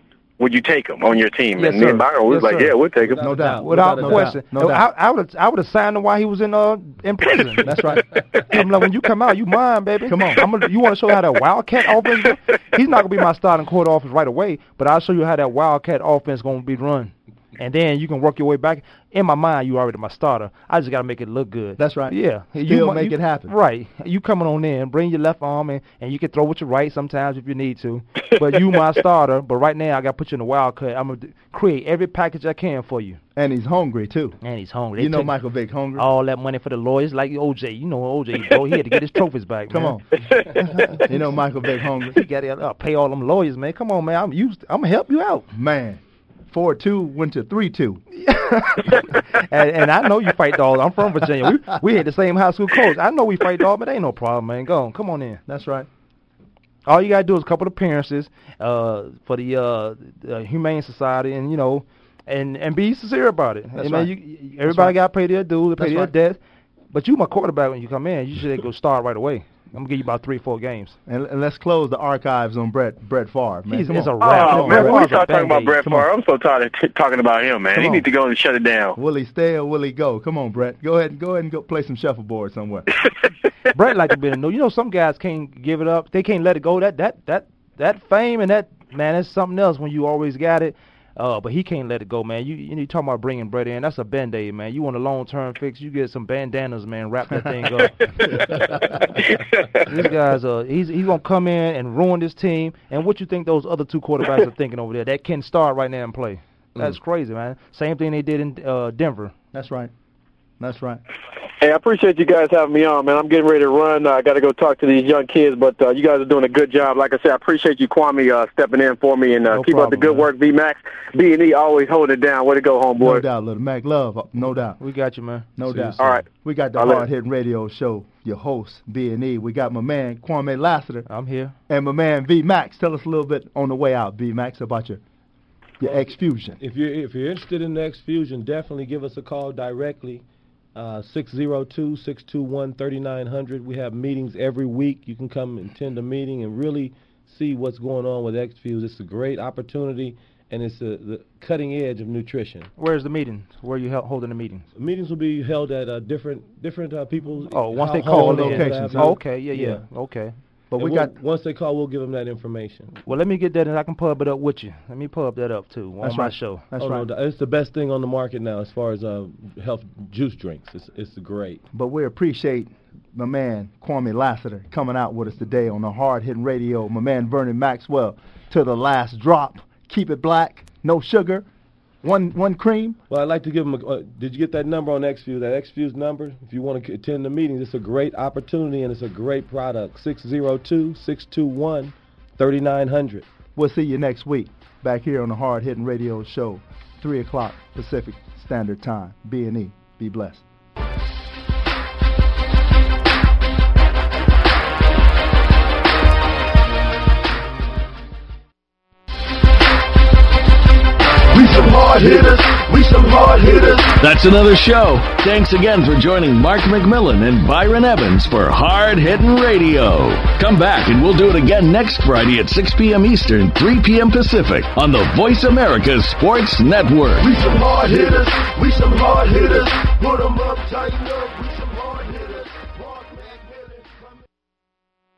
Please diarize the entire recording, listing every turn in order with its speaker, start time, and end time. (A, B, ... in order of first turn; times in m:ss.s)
0:00.4-0:03.2 A
0:01.6-0:02.8 B
0:03.0-0:04.4 C
0:03.2-0:04.8 D
0:03.6-0:07.7 B
0:07.6-0:08.2 D
0:08.5-0:33.2 B
0:10.1-0:10.4 D
0:21.8-0:23.5 D
0:33.3-0:34.4 D
0:34.4-0:35.3 B
0:35.0-0:36.0 D
0:36.0-0:40.0 B
0:39.7-0:42.2 D
0:40.6-0:41.1 B
0:42.1-0:45.5 B
0:45.5-0:48.0 D
0:48.1-0:55.4 B
0:55.5-0:55.9 D
0:56.8-1:06.4 B
1:03.7-1:04.1 D
1:04.6-1:05.0 D
1:05.8-1:06.1 D
1:06.9-1:11.0 B
1:11.0-1:15.2 D
1:13.7-1:15.9 B
1:14.2-1:19.0 A
1:17.7-1:18.1 D
1:18.9-1:22.9 D
1:23.7-1:38.4 B
1:39.8-1:49.3 B
1:49.5-1:49.9 D
1:50.6-1:51.0 D
1:51.6-2:03.2 A
1:59.5-2:00.2 D
1:59.5-2:00.2 B
2:03.0-2:04.8 D
2:04.8-2:05.5 B
2:05.6-2:11.1 D
2:05.6-2:06.2 C
2:06.0-2:07.1 A
2:11.1-2:11.5 B
2:11.7-2:15.0 D
2:15.8-2:16.6 D
2:16.6-2:20.2 C
2:20.7-2:32.7 C
2:32.8-2:34.6 B
2:34.8-2:39.8 C
2:37.5-2:40.3 B
2:38.1-2:39.2 D
2:40.7-2:41.1 D
2:40.8-2:42.9 C
2:43.0-2:46.6 B
2:46.0-2:47.1 D
2:46.8-2:51.6 C
2:51.7-3:01.4 D
3:02.0-3:03.0 D
3:03.1-3:13.2 C
3:13.6-3:20.4 D
3:31.3-3:34.0 E
3:34.0-3:47.3 F
3:47.2-3:54.0 E